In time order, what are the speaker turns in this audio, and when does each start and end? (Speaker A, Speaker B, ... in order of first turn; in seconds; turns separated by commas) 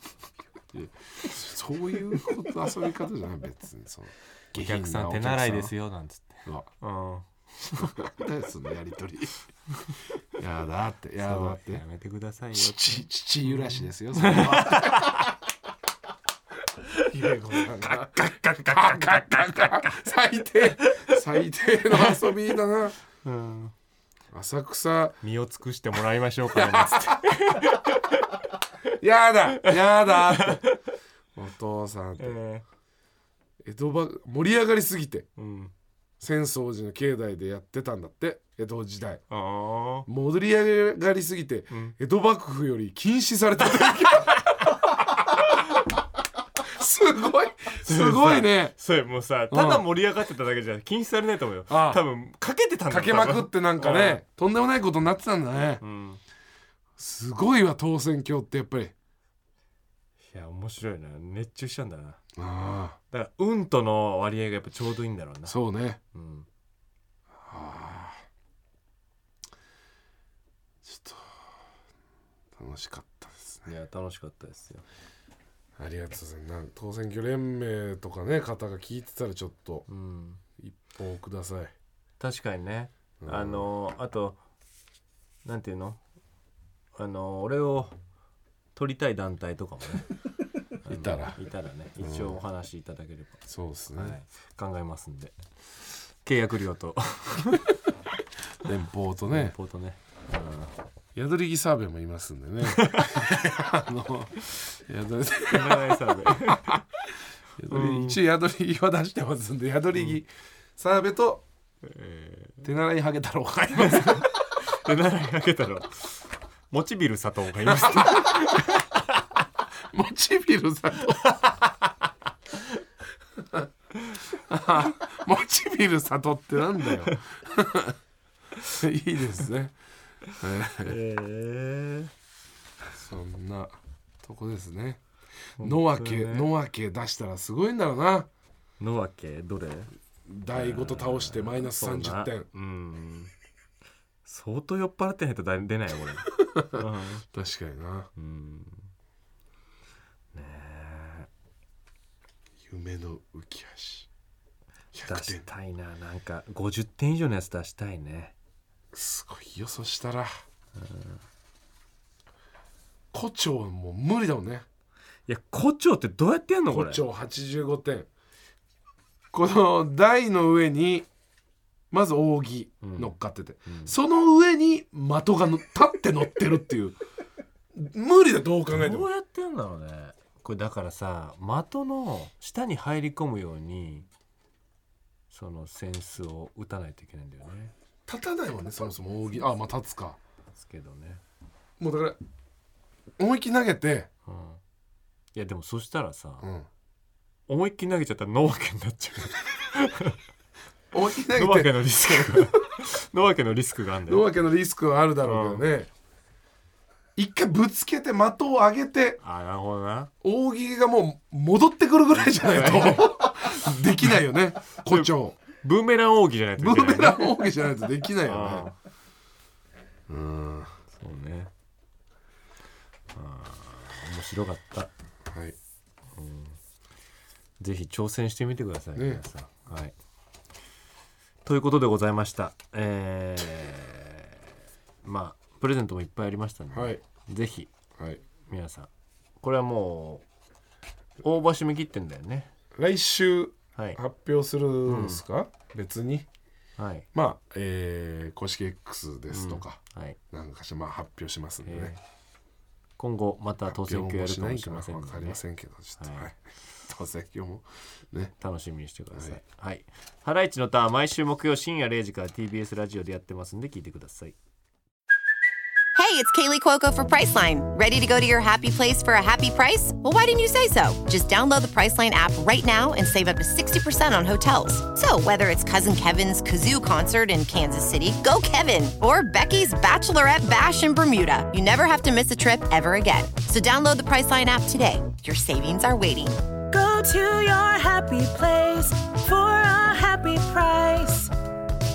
Speaker A: 0.7-5.7, Speaker B: 4.5-7.9, Speaker A: 7.8-9.4, Speaker A: 10.4-11.8, Speaker B: 11.2-15.3, Speaker A: 12.5-15.2, Speaker A: 17.1-23.0, Speaker B: 17.6-20.0, Speaker B: 20.8-21.2, Speaker B: 21.9-22.3, Speaker B: 23.2-23.7, Speaker A: 24.3-25.2, Speaker B: 25.2-28.3, Speaker A: 26.5-27.7, Speaker A: 29.0-30.6, Speaker B: 29.6-30.8, Speaker A: 31.4-32.4, Speaker B: 32.2-32.6, Speaker A: 33.6-35.3, Speaker B: 35.4-35.7, Speaker A: 36.2-39.2, Speaker B: 39.3-40.1, Speaker A: 40.1-44.7, Speaker B: 41.7-42.0, Speaker B: 43.8-44.6, Speaker A: 46.6-48.8, Speaker B: 47.8-54.2, Speaker A: 49.5-49.9, Speaker A: 51.7-52.0, Speaker A: 52.9-55.8, Speaker B: 55.8-56.2, Speaker A: 57.0-58.9, Speaker B: 60.3-62.2, Speaker A: 62.4-63.0, Speaker B: 63.1-65.6, Speaker A: 65.5-66.0, Speaker B: 66.1-66.5, Speaker A: 67.4-68.2, Speaker A: 70.8-71.5, Speaker A: 72.5-73.7, Speaker B: 73.7-74.8, Speaker A: 75.8-79.9, Speaker B: 79.9-80.4, Speaker A: 80.6-81.7, Speaker B: 82.2-84.4, Speaker A: 83.2-83.7, Speaker B: 85.5-86.0, Speaker B: 87.0-88.0, Speaker B: 88.8-90.1, Speaker B: 90.8-93.4, Speaker A: 90.9-91.4, Speaker A: 92.0-92.4, Speaker A: 93.5-94.2, Speaker B: 93.9-97.8, Speaker A: 98.6-99.5, Speaker B: 99.3-100.7, Speaker A: 101.2-106.8, Speaker B: 102.7-103.2, Speaker B: 105.5-106.8, Speaker A: 107.6-111.5, Speaker B: 107.7-108.2, Speaker B: 111.8-112.7, Speaker A: 112.6-114.3, Speaker B: 113.8-119.2, Speaker A: 117.7-118.6, Speaker A: 119.9-121.3, Speaker B: 121.2-121.9, Speaker A: 123.4-123.7, Speaker B: 124.0-124.3, Speaker A: 124.3-128.0, Speaker A: 128.7-129.8, Speaker A: 130.3-131.0, Speaker B: 130.8-132.1, Speaker A: 132.9-135.0, Speaker B: 135.6-136.5, Speaker A: 135.6-138.3, Speaker B: 138.8-139.9, Speaker A: 140.3-142.5, Speaker B: 140.5-143.3, Speaker B: 144.2-147.2, Speaker A: 146.3-148.1, Speaker B: 148.2-148.9, Speaker B: 150.3-151.3, Speaker A: 152.6-154.1, Speaker A: 154.9-155.5, Speaker B: 155.0-158.3, Speaker A: 158.9-160.3, Speaker B: 160.8-161.2, Speaker A: 163.1-164.7, Speaker B: 165.3-167.0, Speaker A: 166.7-168.1, Speaker A: 169.3-171.1, Speaker A: 171.9-177.0, Speaker B: 172.8-173.9, Speaker A: 177.7-179.1, Speaker B: 178.7-184.1, Speaker B: 185.3-187.7, Speaker A: 188.1-190.2, Speaker B: 190.6-191.2, Speaker A: 191.8-192.2, Speaker A: 193.2-194.1, Speaker B: 194.3-194.6, Speaker B: 195.3-196.5, Speaker A: 196.4-196.7, Speaker B: 197.5-200.2, Speaker A: 200.9-202.5, Speaker B: 201.3-204.3, Speaker A: 204.1-205.9, Speaker B: 205.2-205.7, Speaker A: 207.2-209.2, Speaker B: 209.2-210.1, Speaker A: 210.2-215.4, Speaker B: 212.2-213.6, Speaker B: 214.8-217.4, Speaker A: 216.6-218.7, Speaker B: 218.2-218.8, Speaker A: 220.1-220.7, Speaker B: 220.9-221.5, Speaker B: 223.1-224.9, Speaker A: 225.3-225.6, Speaker B: 226.2-226.6, Speaker B: 227.6-229.9, Speaker A: 228.9-229.2, Speaker B: 231.4-234.4, Speaker B: 235.0-237.7, Speaker A: 236.7-237.0, Speaker B: 238.4-238.9, Speaker B: 239.4-240.2, Speaker B: 241.2-242.5, Speaker A: 242.7-246.3, Speaker B: 244.8-245.2, Speaker B: 246.8-247.1, Speaker A: 247.1-249.8, Speaker B: 249.3-250.2, Speaker A: 250.3-251.9, Speaker B: 251.6-252.0, Speaker B: 253.0-255.4, Speaker A: 253.7-258.3, Speaker B: 256.0-256.3, Speaker B: 258.4-264.4, Speaker A: 259.1-259.4, Speaker C: 265.9-286.4, Speaker D: 286.7-291.3